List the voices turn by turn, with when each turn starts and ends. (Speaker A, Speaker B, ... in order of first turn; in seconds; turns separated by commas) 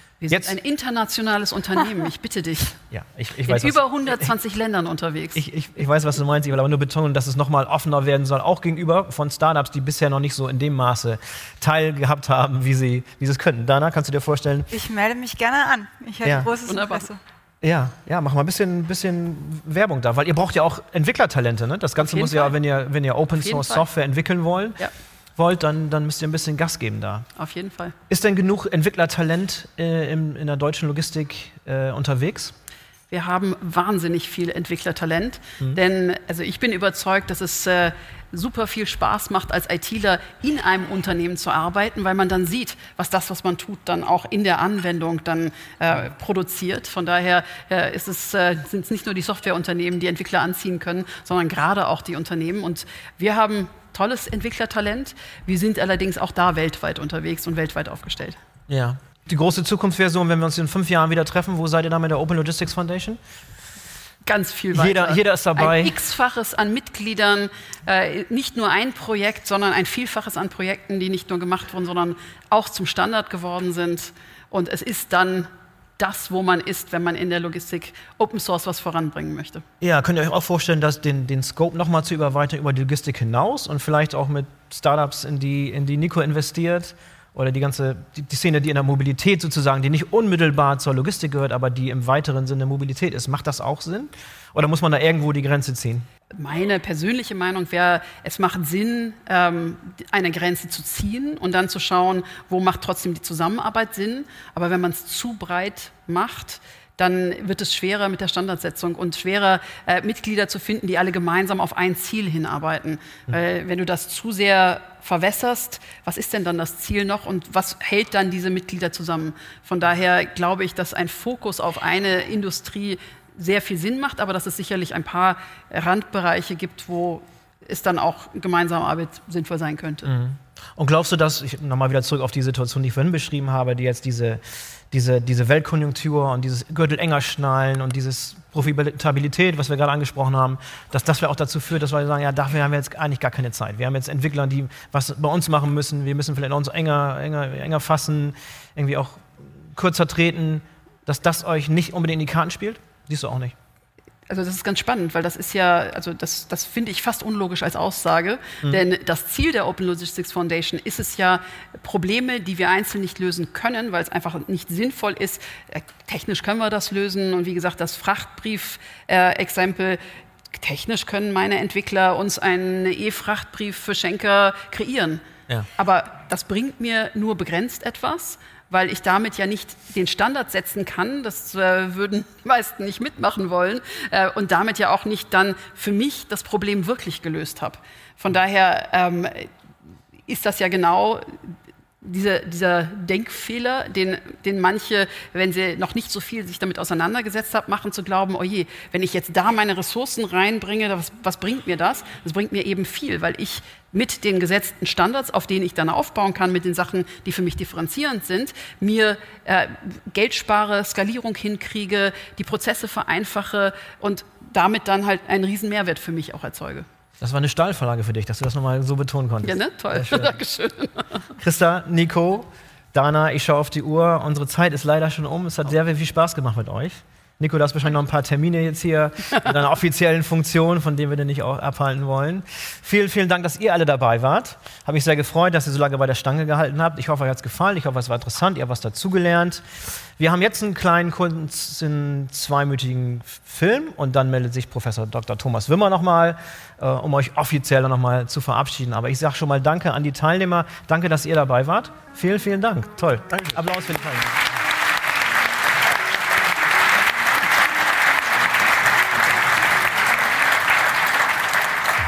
Speaker A: 0.2-2.8, Speaker B: 0.3-0.5, Speaker B: 2.9-4.3, Speaker A: 3.5-5.4, Speaker B: 5.3-14.7, Speaker C: 14.7-17.2, Speaker B: 16.2-16.5, Speaker A: 16.6-17.1, Speaker B: 17.6-24.8, Speaker A: 22.0-22.5, Speaker A: 23.4-23.8, Speaker B: 25.4-27.2, Speaker A: 27.4-27.9, Speaker B: 28.1-32.5, Speaker A: 33.1-58.4, Speaker B: 58.7-63.2, Speaker A: 64.2-75.5, Speaker B: 64.7-65.9, Speaker A: 76.0-79.7, Speaker B: 79.8-96.0, Speaker A: 96.3-130.1, Speaker B: 130.1-153.5, Speaker A: 154.3-170.0, Speaker A: 170.6-175.2, Speaker A: 175.8-189.5, Speaker A: 190.3-216.8, Speaker B: 217.2-220.4, Speaker A: 219.4-221.2, Speaker B: 221.4-239.6, Speaker B: 240.2-254.4